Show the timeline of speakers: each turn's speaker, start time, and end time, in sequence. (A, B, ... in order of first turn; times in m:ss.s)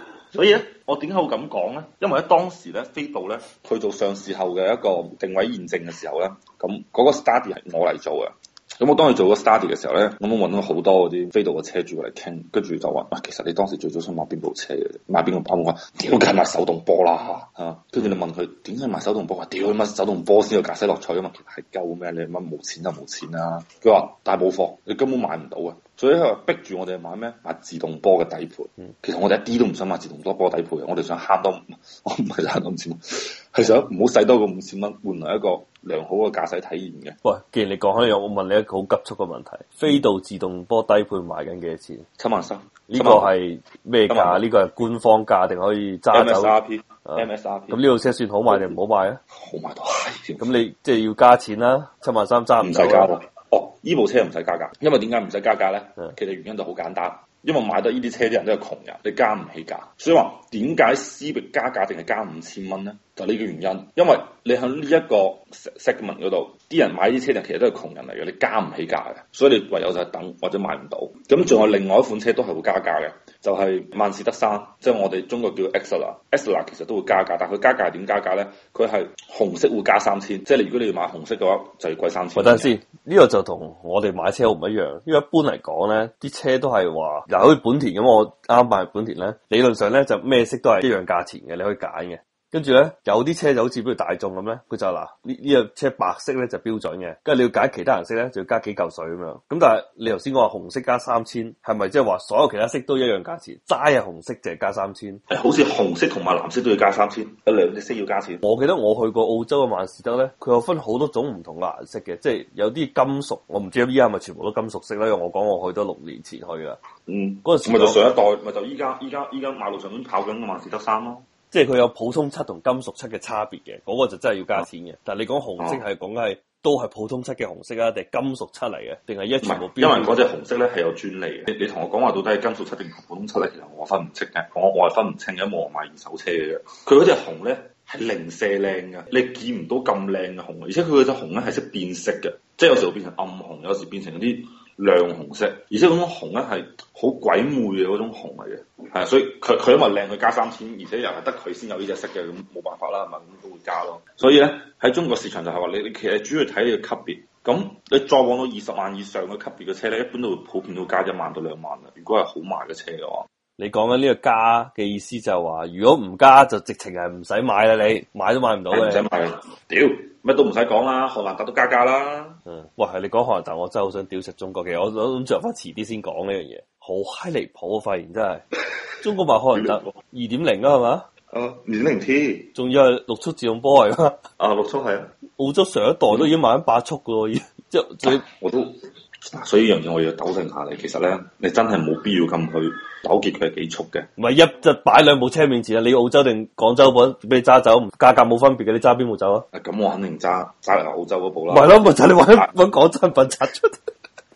0:00.3-0:37.2 A
0:37.2-0:42.0 B
0:42.2-0:43.3 A
0:42.9-0:46.5 B
0:44.1-0:44.4 A
0:46.1-0:47.8 A
0:47.0-0:49.2 B
0:48.5-0:48.8 A
0:49.3-0:50.5 A
0:50.4-0:53.1 B
0:52.6-1:22.7 A
1:22.3-1:45.2 B
1:45.3-1:48.4 A
1:48.4-1:56.8 B
1:57.1-2:01.2 A
1:57.4-1:58.0 B
2:01.5-2:10.2 B
2:09.4-2:43.2 A
2:43.6-2:49.0 B
2:48.7-2:52.4 A
2:52.5-2:58.4 B
2:59.0-3:01.0 B
2:59.5-2:59.9 A
3:01.3-3:02.5 A
3:02.5-3:04.2 B
3:04.4-3:05.1 A
3:05.4-3:08.2 B
3:08.0-3:14.1 A
3:14.2-3:19.4 B
3:19.5-3:22.5 A
3:21.5-3:23.9 B